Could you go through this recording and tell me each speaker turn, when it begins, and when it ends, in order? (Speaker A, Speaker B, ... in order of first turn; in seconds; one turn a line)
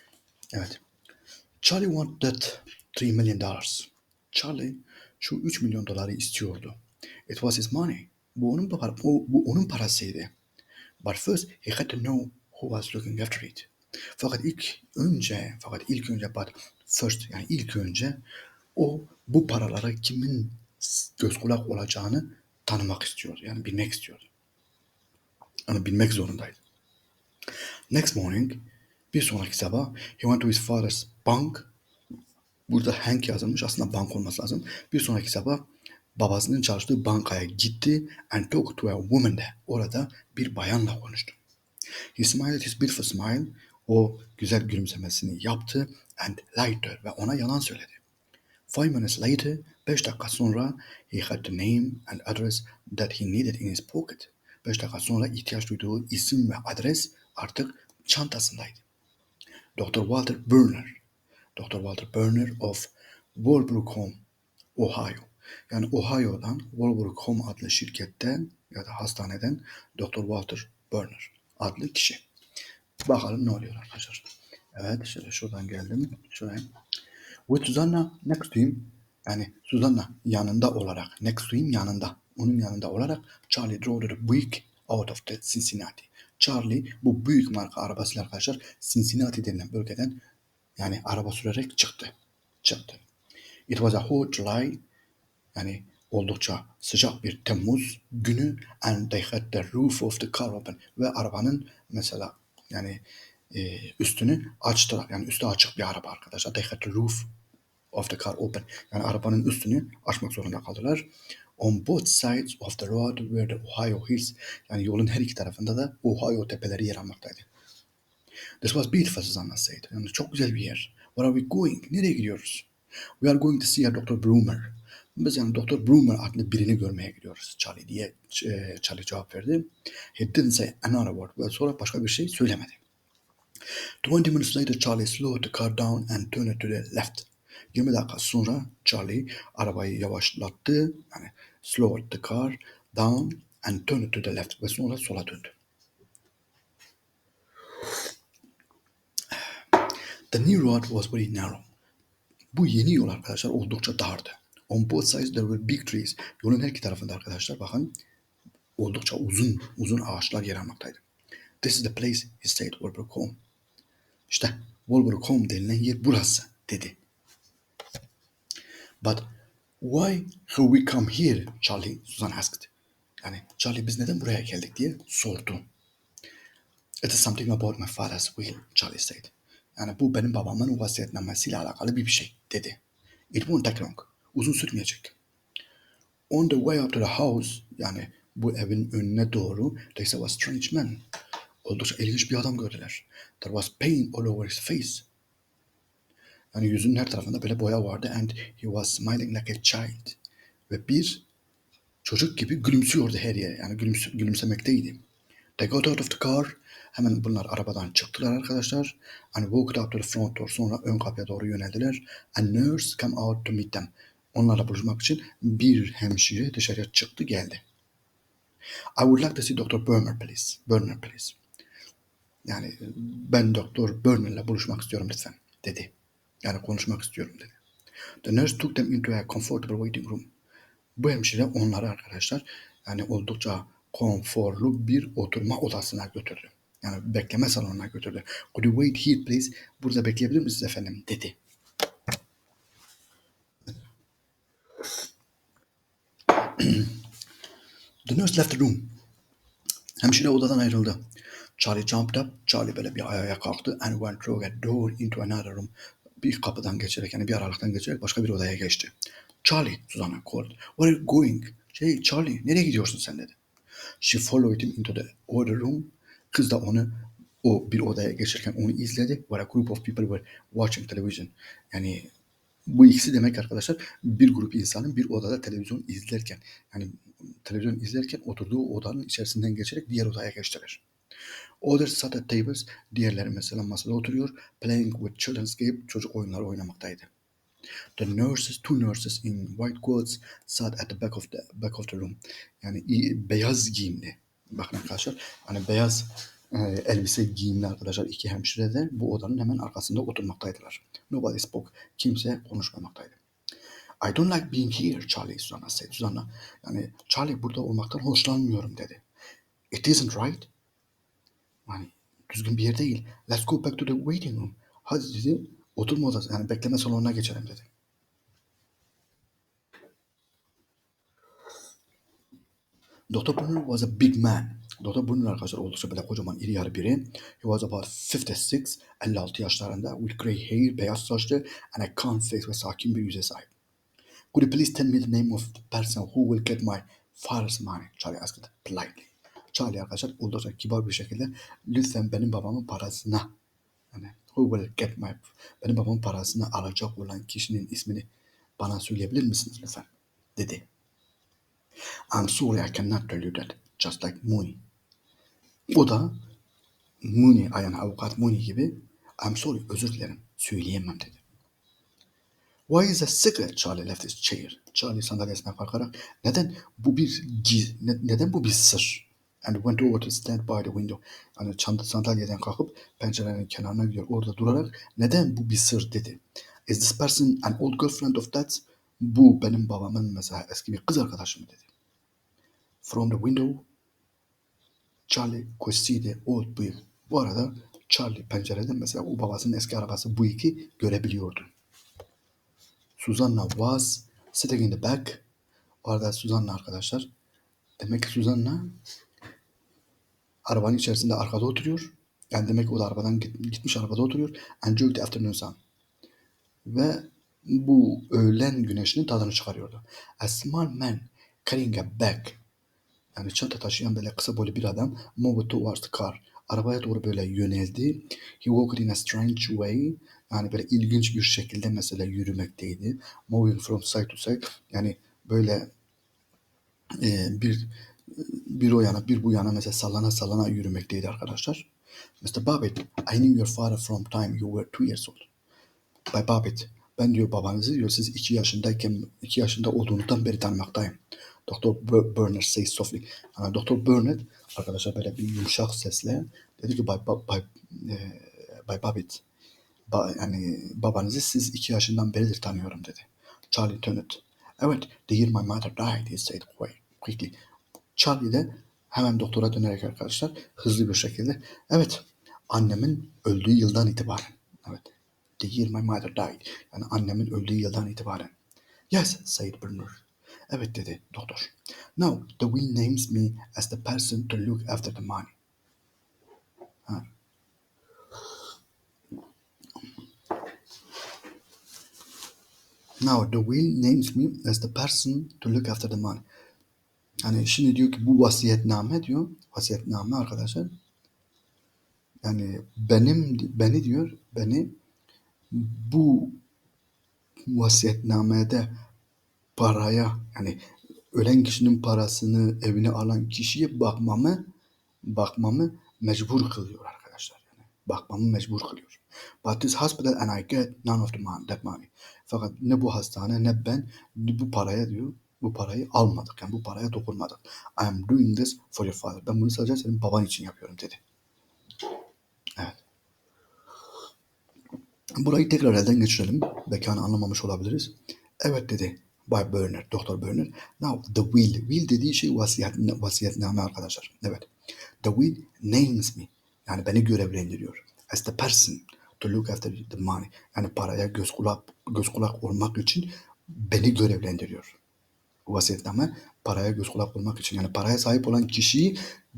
Speaker A: 0.5-0.8
Speaker A: 1.6-10.3
Speaker A: 11.0-18.2
Speaker A: 18.8-24.3
Speaker A: 25.7-26.6
Speaker A: 27.9-31.7
Speaker A: 32.7-35.6
Speaker A: 36.2-41.4
Speaker A: 42.2-48.0
Speaker A: 48.7-58.8
Speaker A: 59.8-61.0
Speaker A: 61.5-64.2
Speaker A: 64.8-72.2
Speaker A: 73.0-76.7
Speaker A: 77.5-90.2
Speaker A: 90.8-93.0
Speaker A: 93.7-94.8
Speaker A: 95.5-107.3
Speaker A: 107.9-117.5
Speaker A: 118.6-122.7
Speaker A: 123.2-132.8
Speaker A: 134.0-145.5
Speaker A: 150.3-151.7
Speaker A: 152.5-157.9
Speaker A: 158.8-161.0
Speaker A: 161.6-163.4
Speaker A: 164.3-167.0
Speaker A: 169.0-172.7
Speaker A: 173.2-175.7
Speaker A: 177.0-182.8
Speaker A: 183.3-185.2
Speaker A: 186.3-191.0
Speaker A: 191.7-195.1
Speaker A: 196.5-200.2
Speaker A: 200.7-201.2
Speaker A: 202.0-205.0
Speaker A: 205.6-217.6
Speaker A: 219.0-221.4
Speaker A: 222.5-225.9
Speaker A: 226.4-227.6
Speaker A: 228.2-230.3
Speaker A: 231.0-241.4
Speaker A: 246.4-247.0
Speaker A: 248.1-249.0
Speaker A: 250.0-251.0
Speaker A: 251.6-258.9
Speaker A: 259.4-263.4
Speaker A: 264.0-272.1
Speaker A: 272.7-280.8
Speaker A: 281.6-287.1
Speaker A: 288.0-303.2
Speaker A: 304.0-309.0
Speaker A: 309.7-310.5
Speaker A: 311.7-317.7
Speaker A: 323.1-333.5
Speaker A: 334.3-343.3
Speaker A: 343.9-348.1
Speaker A: 348.6-350.7
Speaker A: 352.1-354.6
Speaker A: 355.7-356.2
Speaker A: 357.0-361.2
Speaker A: 362.7-381.7
Speaker A: 382.8-383.7
Speaker A: 385.1-391.5
Speaker A: 393.0-395.2
Speaker A: 395.9-397.1
Speaker A: 397.8-398.8
Speaker A: 400.5-405.6
Speaker A: 406.6-412.4
Speaker A: 413.2-425.7
Speaker A: 427.0-431.7
Speaker A: 432.2-435.3
Speaker A: 436.1-449.2
Speaker A: 449.9-457.4
Speaker A: 458.0-468.3
Speaker A: 468.9-475.3
Speaker A: 483.0-486.2
Speaker A: 487.2-490.8
Speaker A: 492.2-494.7
Speaker A: 495.5-496.4
Speaker A: 497.5-498.8
Speaker A: 499.6-500.6
Speaker A: 501.1-504.5
Speaker A: 505.1-521.0
Speaker A: 525.1-534.5
Speaker A: 535.0-544.8
Speaker A: 545.5-549.0